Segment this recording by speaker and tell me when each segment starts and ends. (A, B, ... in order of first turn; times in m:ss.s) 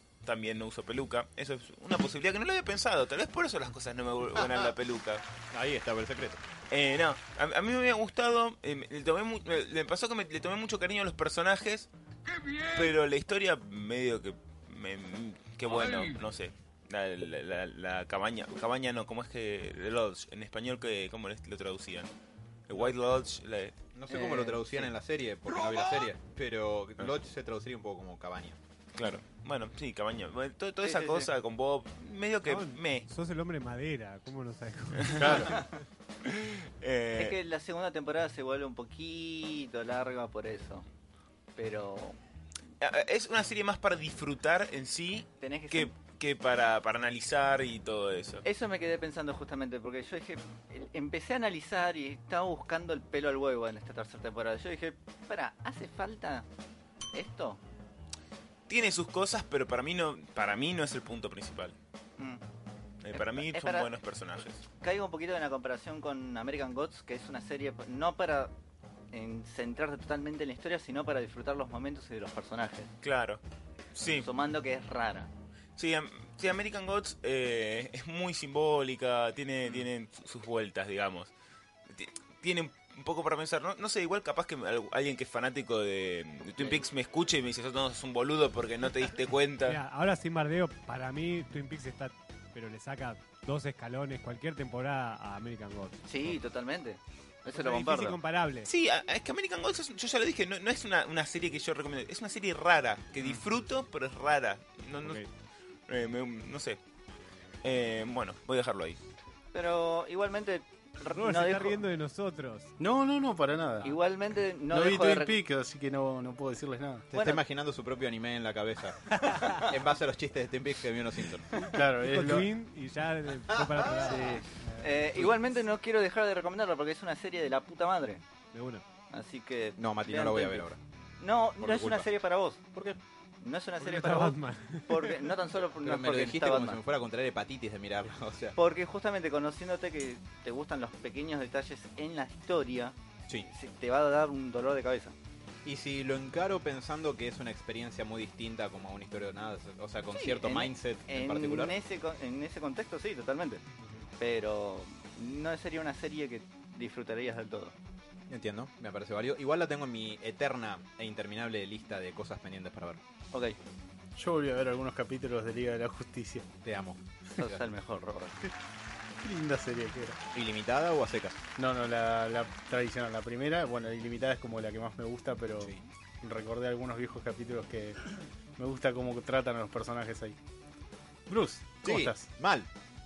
0:00.2-0:05.2 A
0:05.5-0:06.4 B
0:06.7-0:11.9 A
0:12.5-0:22.1 A
0:22.7-0:23.8 A
0:23.9-0:28.6 B
0:24.1-0:24.7 C
0:25.6-0:26.0 A
0:29.0-0:33.1 A
0:30.8-0:31.3 C
0:32.4-0:35.7 D
0:35.0-0:35.4 A
0:35.2-0:35.6 E
0:36.2-0:37.4 A
0:37.1-0:40.9 C
0:41.6-0:42.2 C
0:42.8-0:48.4 A
0:45.4-0:45.9 C
0:48.4-0:56.5 C
0:57.1-0:57.6 C
0:58.7-1:01.8 A
1:03.0-1:04.6 A
1:03.1-1:03.9 C
1:04.8-1:08.5 C
1:09.1-1:12.9 C
1:13.0-1:13.4 A
1:13.9-1:14.3 A
1:14.1-1:15.3 C
1:15.8-1:21.3 A
1:21.9-1:29.8 A
1:29.6-1:36.4 D
1:36.1-1:38.2 C
1:37.5-1:38.7 D
1:38.7-1:45.2 A
1:45.0-1:45.3 D
1:45.9-1:46.8 A
1:47.6-1:49.0 A
1:49.5-1:51.8 C
1:51.1-1:52.7 D
1:52.8-1:54.0 E
1:53.8-1:55.4 C
1:54.7-1:57.1 E
1:57.1-2:01.5 B
1:57.1-1:57.4 C
1:59.2-1:59.6 D
2:01.7-2:02.5 E
2:02.0-2:04.9 D
2:03.5-2:03.9 B
2:04.1-2:08.2 C
2:04.2-2:04.4 E
2:08.5-2:08.8 D
2:09.1-2:10.7 C
2:09.8-2:10.8 B
2:11.2-2:12.6 C
2:11.6-2:12.1 B
2:12.7-2:13.0 B
2:13.4-2:16.8 C
2:13.8-2:15.3 D
2:15.8-2:18.6 B
2:18.6-2:25.2 C
2:25.6-2:31.8 B
2:30.1-2:33.6 C
2:34.2-2:37.8 C
2:38.3-2:43.0 B
2:43.3-2:43.6 C
2:44.2-2:46.5 E
2:46.6-2:47.6 B
2:47.4-2:48.5 C
2:49.2-2:50.2 E
2:50.3-2:51.4 B
2:51.6-2:58.0 E
2:58.6-3:00.4 E
3:01.3-3:02.3 E
3:01.8-3:02.7 B